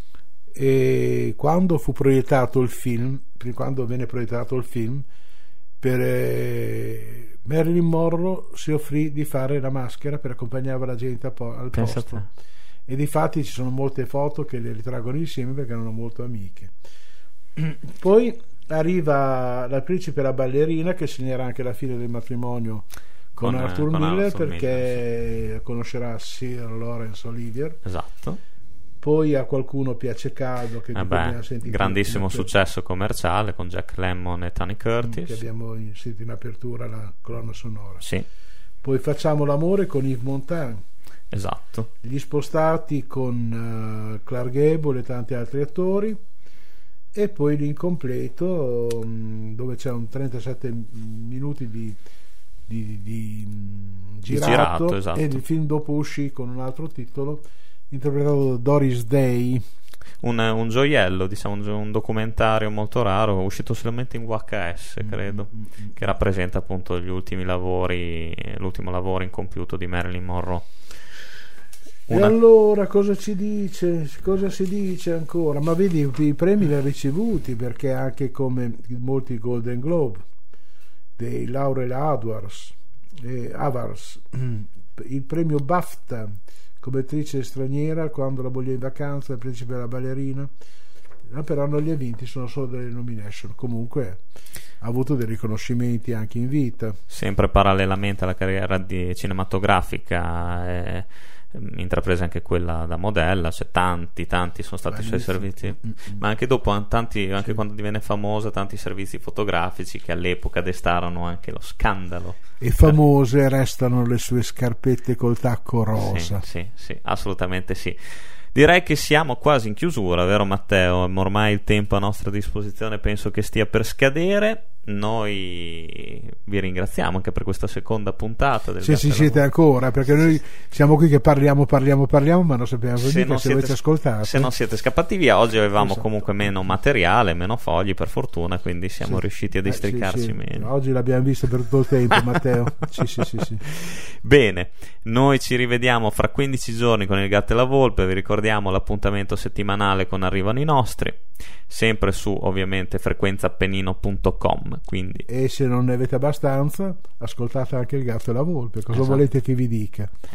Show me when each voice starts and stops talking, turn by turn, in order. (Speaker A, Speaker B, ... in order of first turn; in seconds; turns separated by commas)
Speaker A: 0.5-5.0, Speaker A: 5.8-12.3, Speaker B: 11.7-12.3, Speaker A: 12.9-16.7, Speaker A: 17.6-27.8, Speaker B: 23.4-25.0, Speaker B: 27.8-28.4, Speaker A: 29.0-32.5, Speaker B: 30.9-35.4, Speaker A: 35.0-38.0, Speaker B: 38.0-38.2, Speaker A: 38.8-40.8, Speaker B: 41.3-41.9, Speaker A: 42.0-46.2, Speaker A: 47.1-52.0, Speaker A: 52.7-59.6, Speaker B: 54.3-55.4, Speaker B: 60.2-70.7, Speaker A: 65.0-65.9, Speaker A: 72.1-80.2, Speaker B: 72.1-72.3, Speaker A: 81.2-90.5, Speaker A: 91.3-94.2, Speaker A: 94.8-97.0, Speaker B: 97.1-113.0, Speaker A: 104.9-106.2, Speaker A: 112.6-116.4, Speaker B: 116.0-129.4, Speaker A: 128.8-134.5, Speaker B: 133.0-140.7, Speaker A: 135.8-136.7, Speaker A: 139.0-143.6, Speaker B: 142.2-155.2, Speaker A: 155.3-160.1, Speaker B: 158.9-159.2